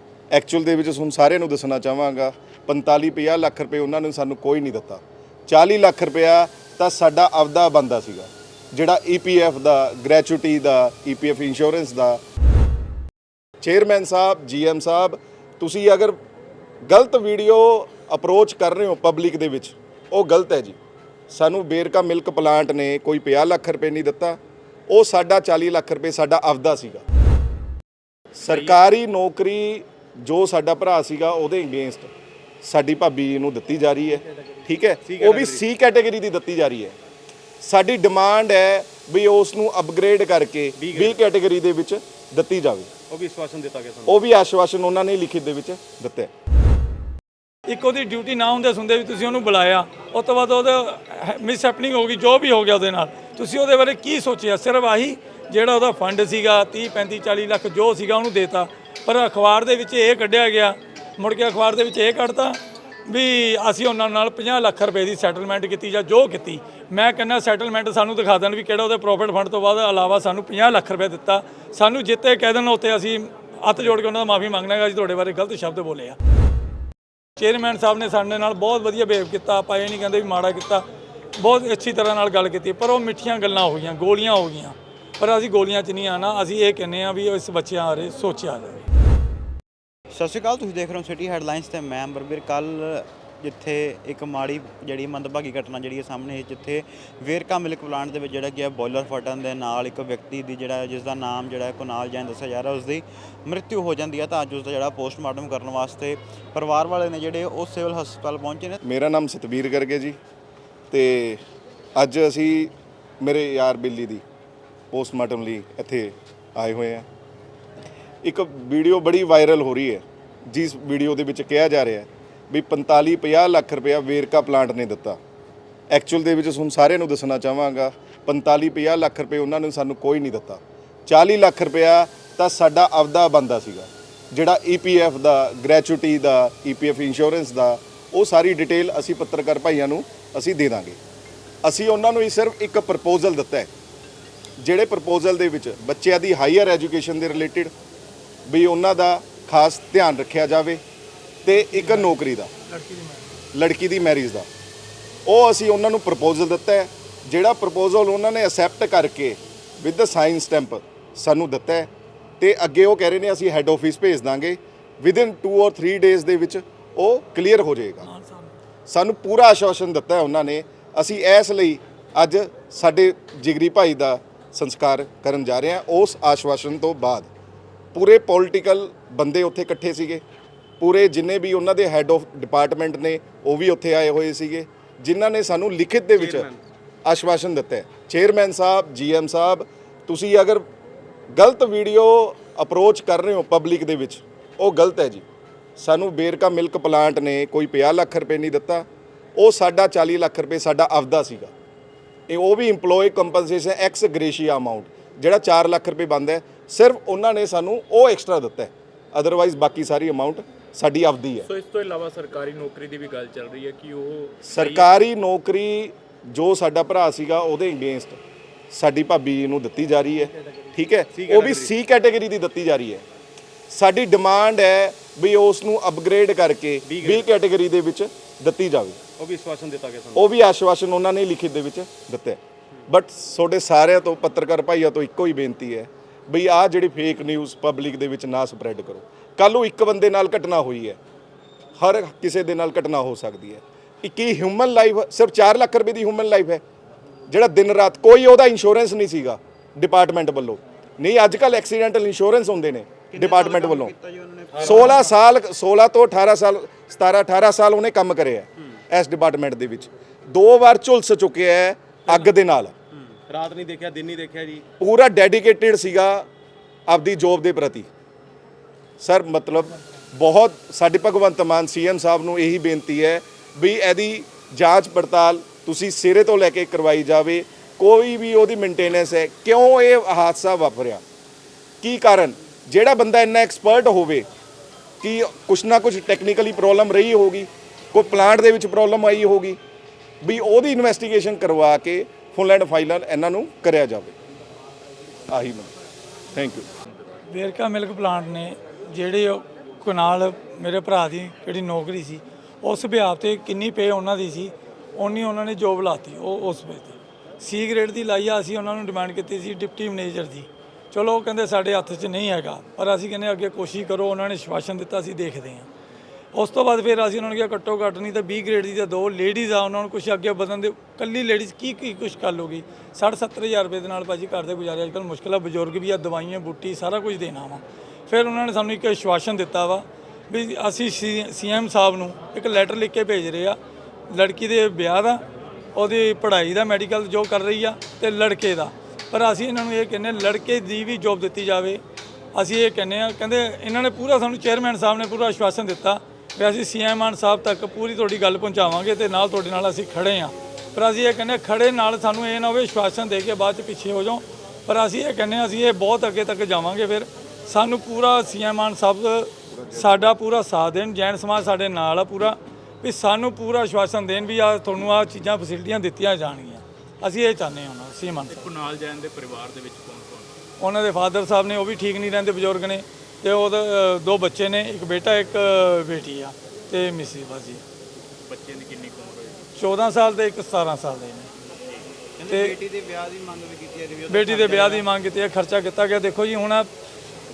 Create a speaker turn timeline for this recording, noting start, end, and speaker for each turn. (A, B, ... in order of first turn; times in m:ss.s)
0:00.3-0:12.2 A
0:13.6-0:16.2 A
0:16.9-0:20.8 A
0:21.3-0:24.4 A
0:24.9-0:27.0 A
0:28.4-0:37.0 A
0:35.0-0:35.6 B
0:37.6-0:42.9 A
0:40.8-0:41.2 B
0:43.1-0:44.2 B
0:44.1-0:46.3 A
0:47.7-1:16.2 C
1:17.4-1:20.8 C
1:21.4-1:28.9 C
1:30.1-1:48.8 D
1:48.8-1:50.2 A
1:50.9-1:51.4 A
1:52.0-1:54.2 A
1:54.9-1:57.1 A
1:58.2-2:05.2 A
2:05.9-2:21.0 A
2:21.6-2:23.7 A
2:24.6-2:27.7 A
2:28.5-2:30.8 A
2:31.4-2:32.5 A
2:31.6-2:32.1 C
2:32.7-2:33.2 C
2:33.5-2:34.5 A
2:35.3-2:48.1 A
2:48.1-2:48.5 C
2:48.9-2:57.3 A
2:57.9-3:00.2 A
3:00.8-3:06.5 A
3:06.2-3:06.6 B
3:07.0-3:10.6 A
3:11.3-3:15.2 A
3:15.8-3:18.8 A
3:19.4-3:21.5 A
3:22.3-3:31.5 A
3:31.5-3:34.9 E
3:34.4-3:38.2 A
3:38.7-3:43.0 A
3:41.1-3:41.7 B
3:43.7-3:49.0 A
3:46.9-3:47.3 B
3:49.2-3:50.3 B
3:50.2-4:01.0 A
4:01.8-4:06.6 A
4:07.3-4:13.9 A
4:13.1-4:15.1 D
4:14.6-4:14.9 B
4:14.6-4:22.7 A
4:23.3-4:24.6 B
4:24.8-4:26.3 A
4:26.9-4:27.9 A
4:29.0-4:41.0 A
4:41.8-4:44.3 A
4:45.0-4:49.6 A
4:50.2-4:54.2 A
4:55.3-4:55.7 A
4:56.3-4:56.7 A
4:57.3-5:15.7 C
5:16.3-5:33.6 C
5:34.1-5:35.2 C
5:35.8-5:41.8 C
5:42.4-6:08.5 C
5:59.5-6:00.1 A
6:08.3-6:10.3 E
6:10.6-6:17.6 C
6:18.2-6:19.5 E
6:19.6-6:21.3 C
6:21.5-6:21.8 E
6:22.2-6:24.9 D
6:22.3-6:22.6 C
6:24.1-6:26.7 C